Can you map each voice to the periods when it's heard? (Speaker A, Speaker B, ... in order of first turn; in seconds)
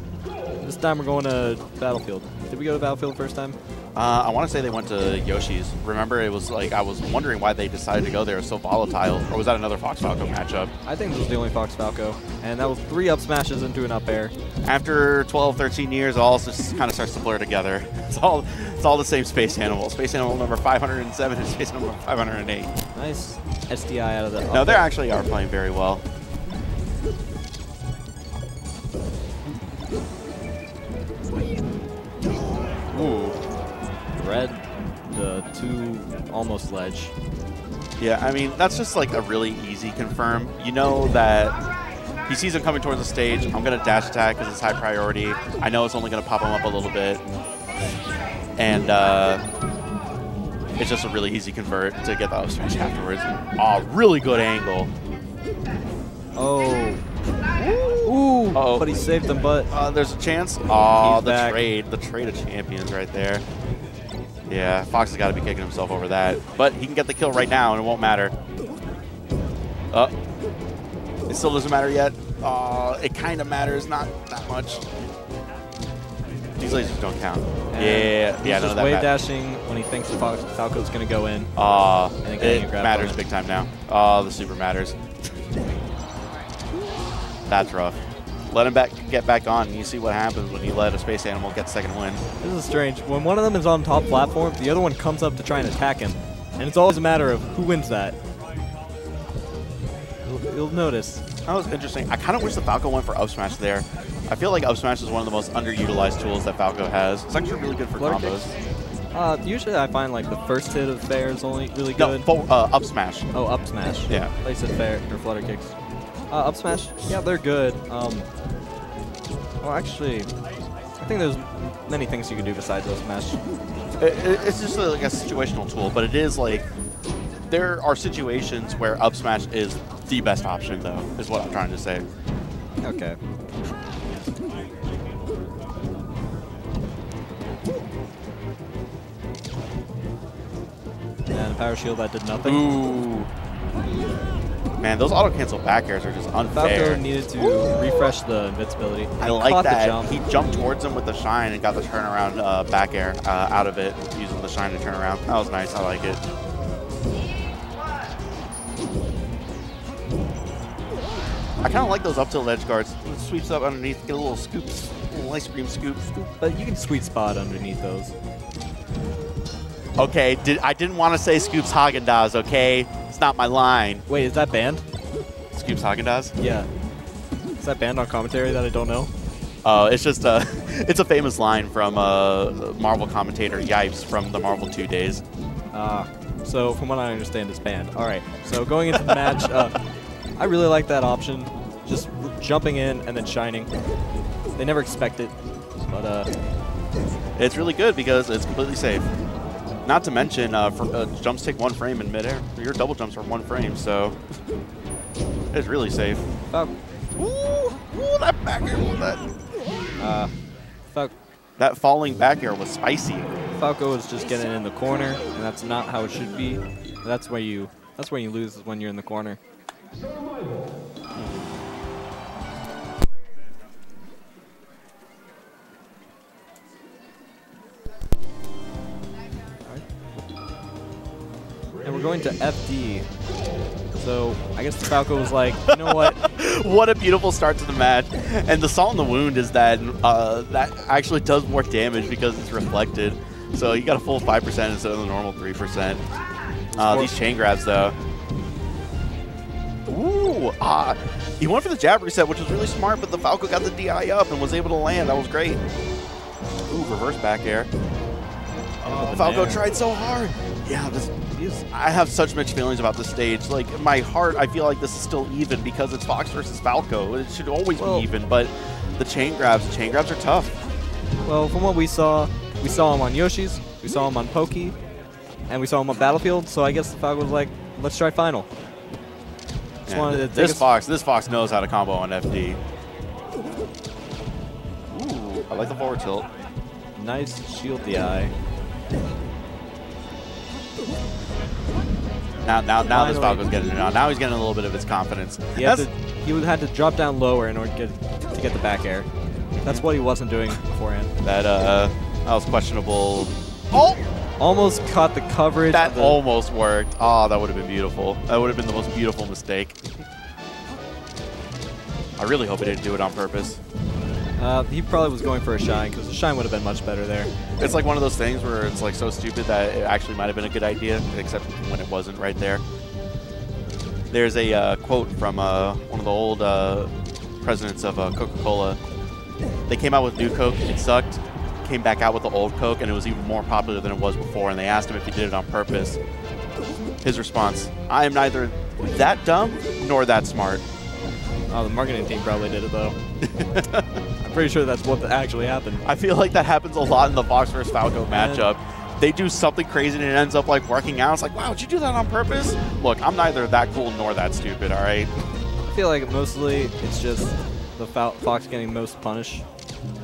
Speaker A: 0.6-3.6, 10.9-14.3, 23.0-24.9, 34.2-34.6, 35.1-37.1, 56.4-57.0, 58.1-59.7, 61.0-61.6, 77.7-81.5, 82.2-83.2, 92.4-98.2, 100.2-101.2, 108.0-108.5, 109.1-112.3, 113.3-115.7, 116.3-118.3, 119.6-120.3, 121.0-123.4, 132.8-133.2, 141.3-142.7, 146.5-150.2, 166.4-168.1, 174.1-174.8, 176.4-176.7, 177.6-179.1, 185.7-189.8, 190.4-193.7, 194.6-196.3, 210.0-210.3, 213.6-219.4, 231.8-233.1, 234.0-236.2, 246.7-247.2, 258.9-259.6, 261.4-261.6, 267.8-268.1, 271.2-274.8, 275.5-278.5, 279.9-280.7, 287.0-288.3, 292.9-293.5, 295.6-299.1, 299.6-301.1, 304.4-306.2, 314.4-317.3, 341.5-343.0, 344.2-345.9, 348.1-348.5, 355.7-359.4
Speaker B: 4.0-10.7, 14.7-22.7, 24.5-26.0, 32.9-33.4, 38.0-41.6, 42.3-47.2, 48.6-49.4, 50.8-54.9, 57.6-58.9, 59.7-63.4, 64.5-68.3, 71.3-74.8, 76.6-79.1, 81.6-85.0, 87.5-88.0, 88.5-92.2, 101.5-108.5, 112.0-113.3, 124.0-126.7, 127.5-132.1, 142.4-143.3, 144.8-147.0, 149.2-156.2, 161.6-166.3, 170.0-174.0, 175.5-176.3, 179.6-185.2, 188.9-189.4, 197.4-199.1, 199.8-204.2, 205.5-206.2, 207.2-209.2, 211.6-213.3, 221.2-221.6, 235.7-246.0, 246.8-247.9, 249.9-255.6, 256.7-257.7, 258.8-261.1, 261.7-270.5, 279.9-282.6, 284.9-286.3, 292.4-295.9, 301.2-304.0, 305.7-309.9, 312.2-313.6, 317.6-322.6, 324.1-326.9, 327.4-328.8, 329.7-336.0, 337.0-340.6, 343.3-343.9, 345.8-355.1